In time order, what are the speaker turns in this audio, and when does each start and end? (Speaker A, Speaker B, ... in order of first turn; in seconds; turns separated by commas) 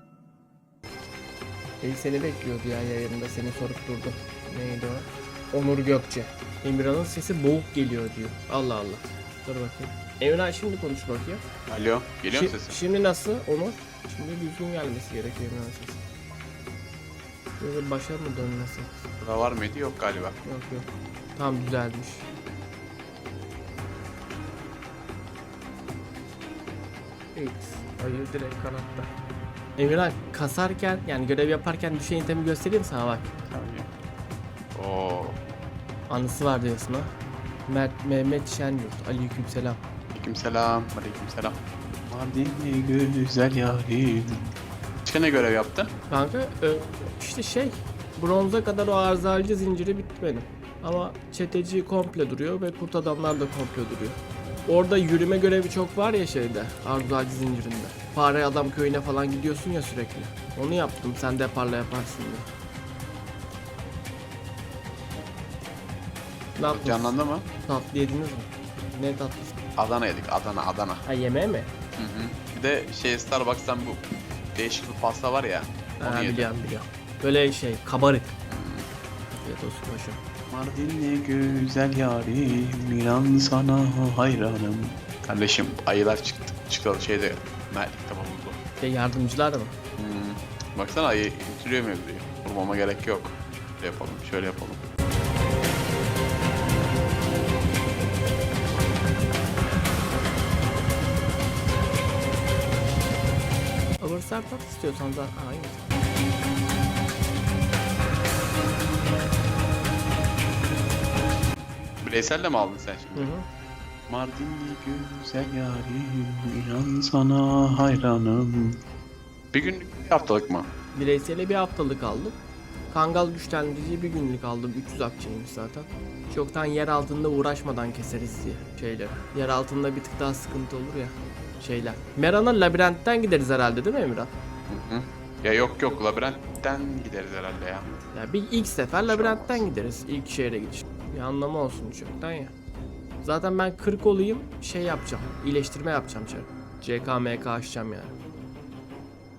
Speaker A: 1.8-11.4, Speaker B: 11.7-12.8, Speaker A: 12.3-16.0, Speaker A: 17.6-19.1, Speaker B: 19.2-20.4, Speaker A: 20.4-22.3, Speaker A: 27.3-29.1, Speaker A: 29.8-33.3, Speaker B: 33.5-33.9, Speaker B: 34.8-35.4, Speaker A: 36.1-37.1, Speaker A: 37.7-39.8, Speaker B: 40.1-44.5, Speaker B: 45.0-45.9, Speaker A: 46.1-62.5, Speaker A: 66.6-69.6, Speaker B: 66.7-67.5, Speaker B: 69.8-71.0, Speaker A: 71.1-71.7, Speaker B: 72.0-74.0, Speaker B: 74.5-76.5, Speaker A: 76.0-78.3, Speaker B: 78.5-78.9, Speaker A: 79.4-80.2, Speaker B: 80.5-88.6, Speaker A: 88.8-89.7, Speaker B: 90.0-94.8, Speaker A: 104.0-105.9, Speaker B: 112.0-113.3, Speaker A: 113.2-113.5, Speaker B: 114.1-118.8, Speaker B: 119.5-120.7, Speaker A: 120.9-122.4, Speaker A: 122.9-134.3, Speaker B: 134.7-137.9, Speaker A: 138.1-142.6, Speaker B: 139.0-139.7, Speaker A: 143.2-148.2